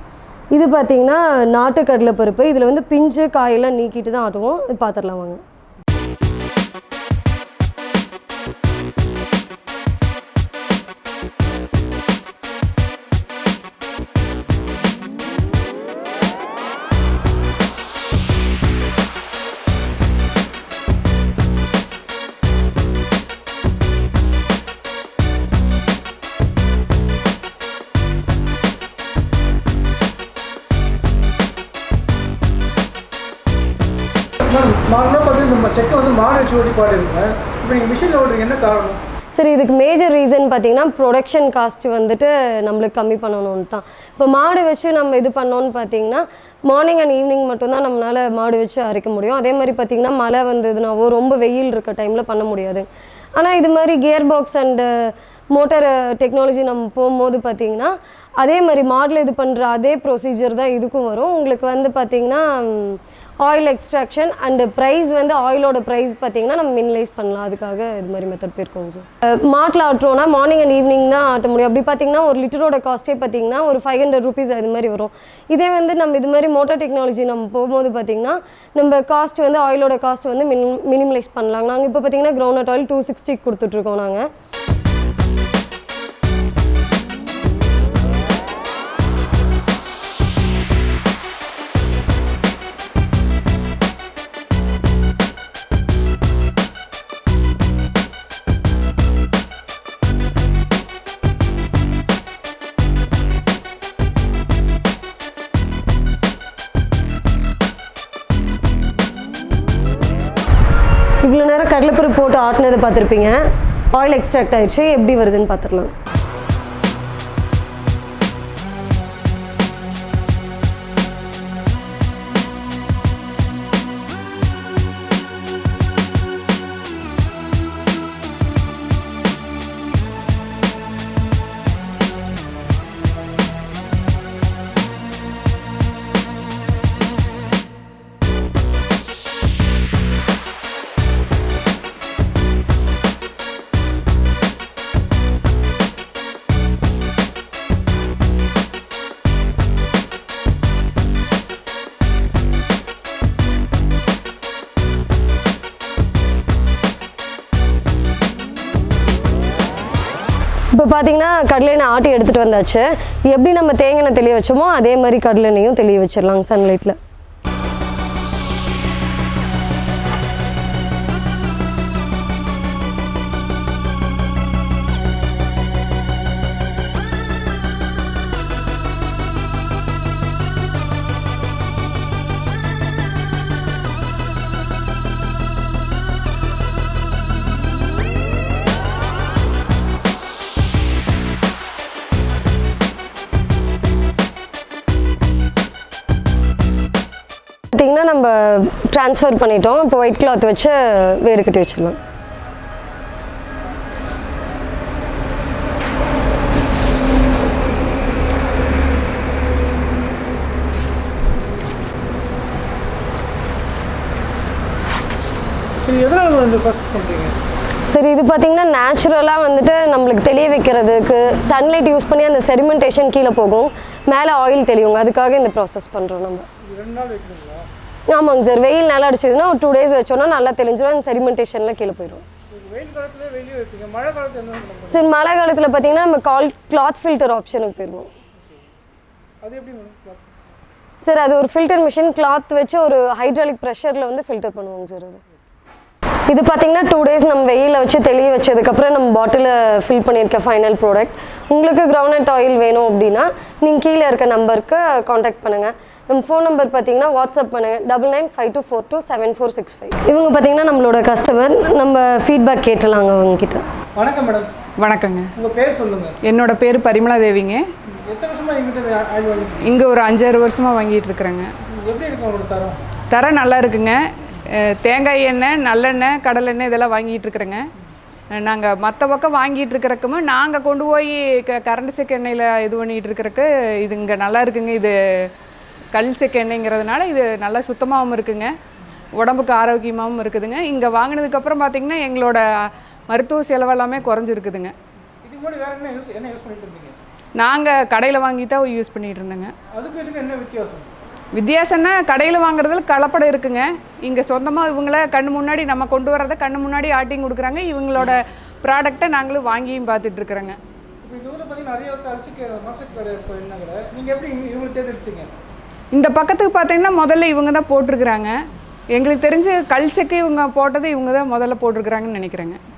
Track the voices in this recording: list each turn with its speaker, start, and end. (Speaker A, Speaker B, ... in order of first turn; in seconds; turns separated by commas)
Speaker A: 0.5-5.4, Speaker B: 34.4-39.0, Speaker A: 39.4-84.3, Speaker A: 111.2-115.9, Speaker A: 160.7-167.0, Speaker A: 197.7-202.0, Speaker B: 215.8-217.4, Speaker A: 217.9-226.5, Speaker B: 226.6-227.7, Speaker A: 228.1-232.2, Speaker B: 232.5-235.1, Speaker A: 234.9-238.1, Speaker B: 239.4-240.3, Speaker A: 241.0-245.2, Speaker A: 246.3-263.6, Speaker B: 264.0-264.5, Speaker C: 264.8-265.3, Speaker B: 265.4-266.2, Speaker C: 266.2-267.6, Speaker B: 267.9-269.7, Speaker C: 269.6-271.5, Speaker B: 271.8-272.9, Speaker C: 273.1-277.6, Speaker C: 278.3-285.3, Speaker C: 285.9-288.5, Speaker C: 289.1-294.7, Speaker B: 295.2-297.0, Speaker C: 297.4-299.5, Speaker B: 299.7-300.9, Speaker C: 301.4-310.6, Speaker B: 311.0-315.3, Speaker C: 315.9-318.4, Speaker C: 318.9-322.6